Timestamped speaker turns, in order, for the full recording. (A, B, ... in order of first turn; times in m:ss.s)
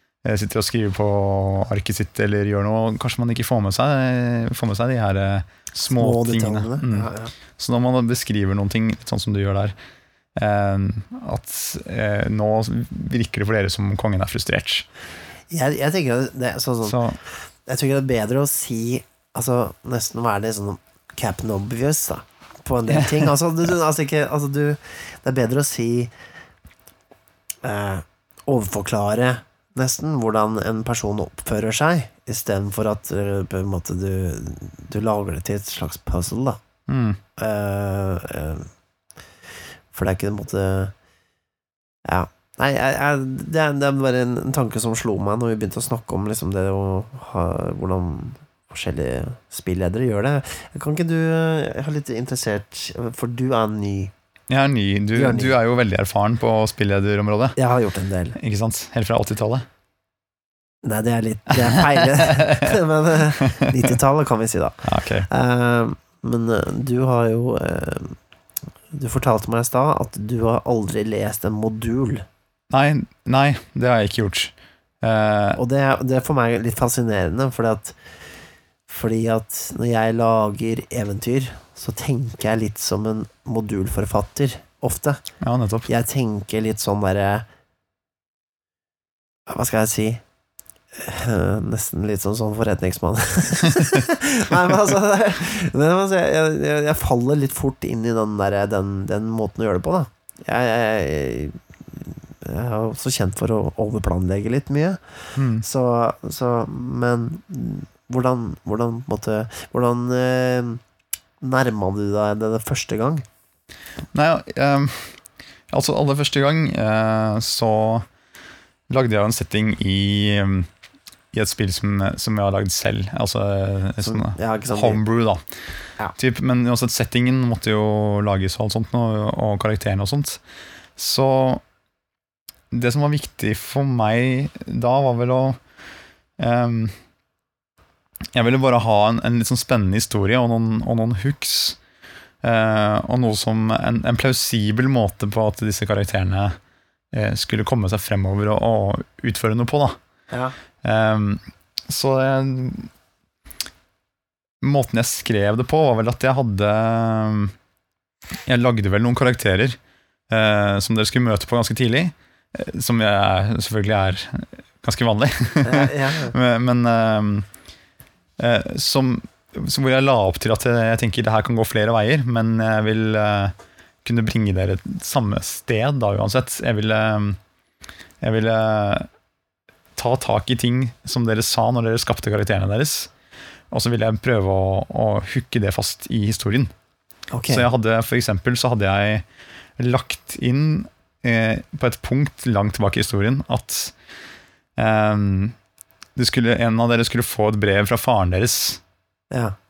0:00.2-0:09.8 A
0:05.9-0:07.3 B
0:10.4-0:14.9 A
0:15.5-0:17.0 B
0:16.8-0:17.2 A
0:17.6-0:26.1 B
0:22.9-0:23.3 A
0:27.6-0:36.6 B
0:36.9-0:37.2 A
0:37.4-0:38.7 B
0:39.9-0:40.9 B
0:42.0-0:54.1 B
0:54.5-0:57.6 A
0:55.1-0:55.6 B
0:57.6-0:58.4 B
0:58.4-0:59.7 A
1:00.8-1:08.2 B
1:01.6-1:02.8 A
1:03.4-1:03.9 A
1:04.8-1:05.3 A
1:08.9-1:12.2 B
1:12.7-1:15.6 A
1:15.6-1:18.0 B
1:18.9-1:25.2 B
1:25.4-1:25.9 A
1:25.9-1:27.5 B
1:29.5-1:30.2 B
1:31.0-1:50.8 B
1:45.4-1:45.6 A
1:51.4-1:53.2 B
1:54.1-1:55.2 A
1:55.7-1:58.1 A
1:58.9-2:00.7 A
2:01.3-2:05.4 A
2:04.0-2:05.0 B
2:06.2-2:10.4 A
2:11.0-2:11.6 A
2:12.7-2:15.6 A
2:16.4-2:16.9 A
2:18.3-2:21.8 A
2:22.4-2:26.6 A
2:27.1-2:30.0 A
2:30.3-2:30.6 B
2:30.8-2:32.9 A
2:34.6-2:37.5 A
2:38.5-2:39.8 A
2:40.3-2:47.5 A
2:45.6-2:46.4 B
2:48.4-2:57.4 A
2:58.2-2:59.1 A
3:00.0-3:03.1 A
3:03.7-3:06.7 A
3:07.3-3:07.7 B
3:07.5-3:09.2 A
3:09.8-3:14.0 A
3:14.8-3:15.6 A
3:16.2-3:18.8 A